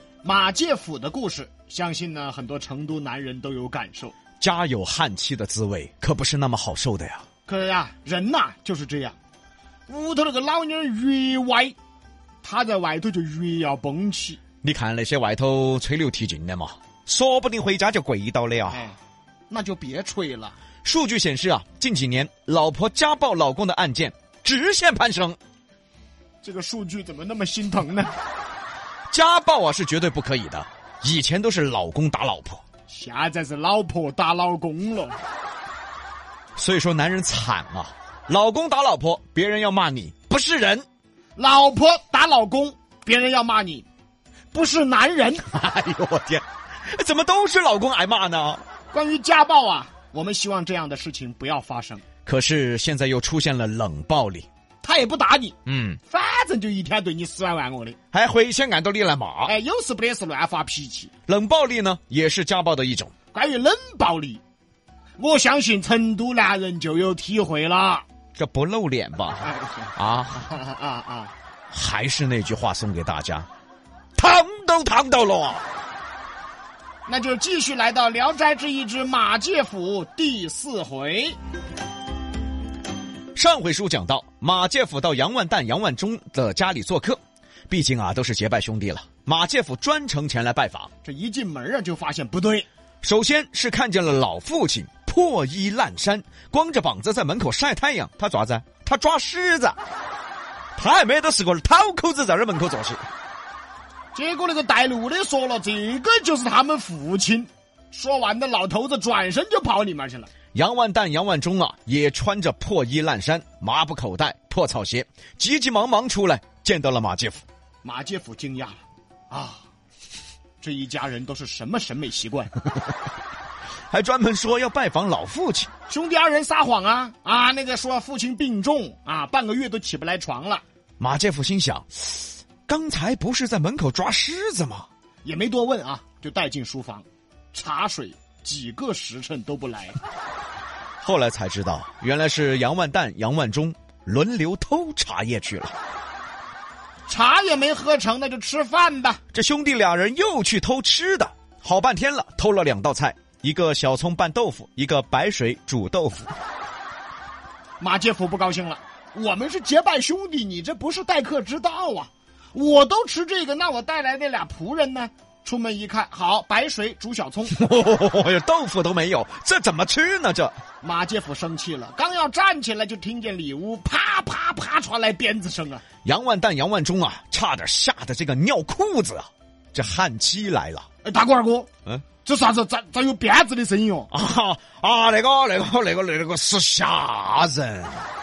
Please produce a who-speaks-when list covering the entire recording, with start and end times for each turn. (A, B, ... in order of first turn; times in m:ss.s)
0:00.2-0:04.2 A
0:04.4-0:07.2 B
0:07.5-0:09.2 A
0:09.9-0:11.7 A
0:12.4-0:14.4 A
0:14.6-0:18.8 B
0:18.7-0:19.0 A
0:19.5-0:20.6 A
0:20.8-0:25.4 B
0:26.4-0:28.1 A
0:29.1-0:32.6 B
0:32.9-0:35.2 A
0:36.6-0:40.8 B
0:41.4-0:43.9 A
0:44.5-0:45.5 A
0:45.5-0:48.6 B
0:48.9-0:52.0 A
0:52.2-0:54.5 B
0:54.8-0:55.6 A
0:55.7-0:56.0 B
0:56.1-0:58.0 A
0:58.1-0:59.5 B
0:59.4-1:01.1 A
1:01.3-1:03.1 B
1:03.3-1:04.4 A
1:05.2-1:08.0 A
1:08.4-1:10.5 B
1:09.4-1:11.3 A
1:11.7-1:13.5 B
1:14.2-1:15.7 B
1:17.1-1:21.4 A
1:23.4-1:30.9 B
1:31.0-1:32.7 A
1:33.0-1:39.8 B
1:40.8-1:43.0 B
1:44.1-1:50.3 A
1:50.5-1:57.4 B
1:57.8-1:59.6 A
2:00.6-2:02.5 A
2:03.9-2:05.7 B
2:05.9-2:10.6 A
2:11.0-2:14.9 B
2:15.2-2:20.0 A
2:21.0-2:25.8 B
2:27.1-2:29.2 A
2:29.3-2:36.3 B
2:37.8-2:47.6 A
2:47.5-2:50.6 B
2:50.8-2:55.8 A
2:56.0-3:00.8 B
3:01.0-3:01.7 A
3:02.2-3:04.1 A
3:04.1-3:08.1 B